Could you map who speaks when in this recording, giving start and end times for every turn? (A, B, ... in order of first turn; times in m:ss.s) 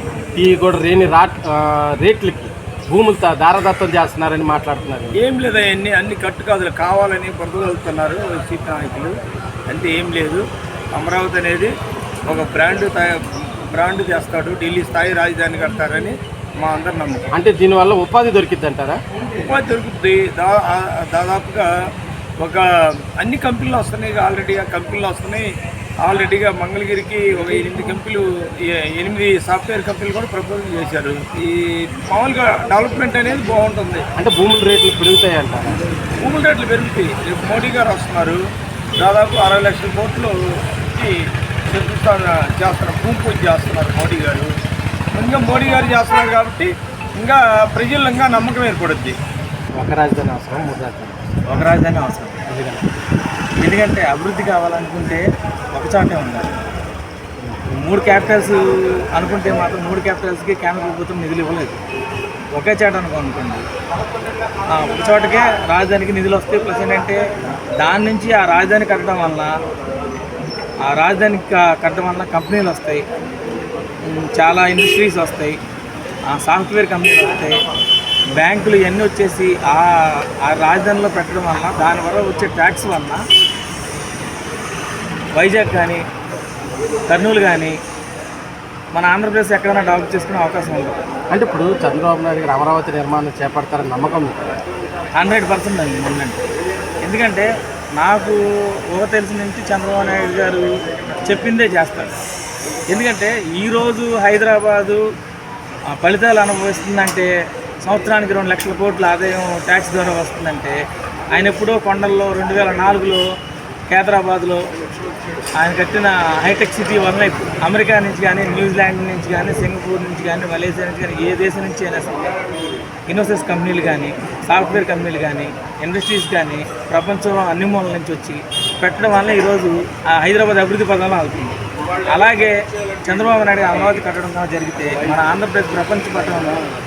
0:00.4-0:05.2 A
0:05.2-0:09.1 B
0:09.7-0:10.4 B
0:11.0-0:11.7 B
0:12.3-0:17.3 B
0:17.3-0:19.0 A
0:19.5-0:21.7 B
0:22.4-0:22.7 B
0:23.2-0:25.4 B
0:26.0-0:34.0 B
0:34.2-0:35.8 A
0:36.2-0:38.4 B
0:39.0-0:41.1 B
0:41.7-0:44.5 B
0:45.1-0:49.2 B
0:49.8-0:51.3 A
0:51.5-0:52.4 C
0:52.5-0:52.8 A
0:53.6-0:56.6 C
0:57.7-0:58.6 C
0:59.1-1:01.8 C
1:02.5-1:03.7 C
1:04.7-1:07.2 C
1:07.8-1:09.5 C
1:10.9-1:13.0 C
1:14.1-1:15.6 C
1:16.3-1:17.6 C
1:18.3-1:19.9 C
1:20.4-1:23.2 C
1:25.4-1:26.0 C
1:27.1-1:27.8 C
1:29.0-1:31.0 C
1:31.3-1:34.6 A
1:35.2-1:36.4 C
1:37.0-1:38.4 C
1:38.9-1:40.7 C
1:41.2-1:42.1 C
1:42.9-1:45.0 C
1:46.0-1:47.3 C
1:47.8-1:50.8 C
1:51.3-1:53.2 C
1:53.9-1:54.6 C
1:55.6-2:02.4 C
2:03.1-2:16.7 C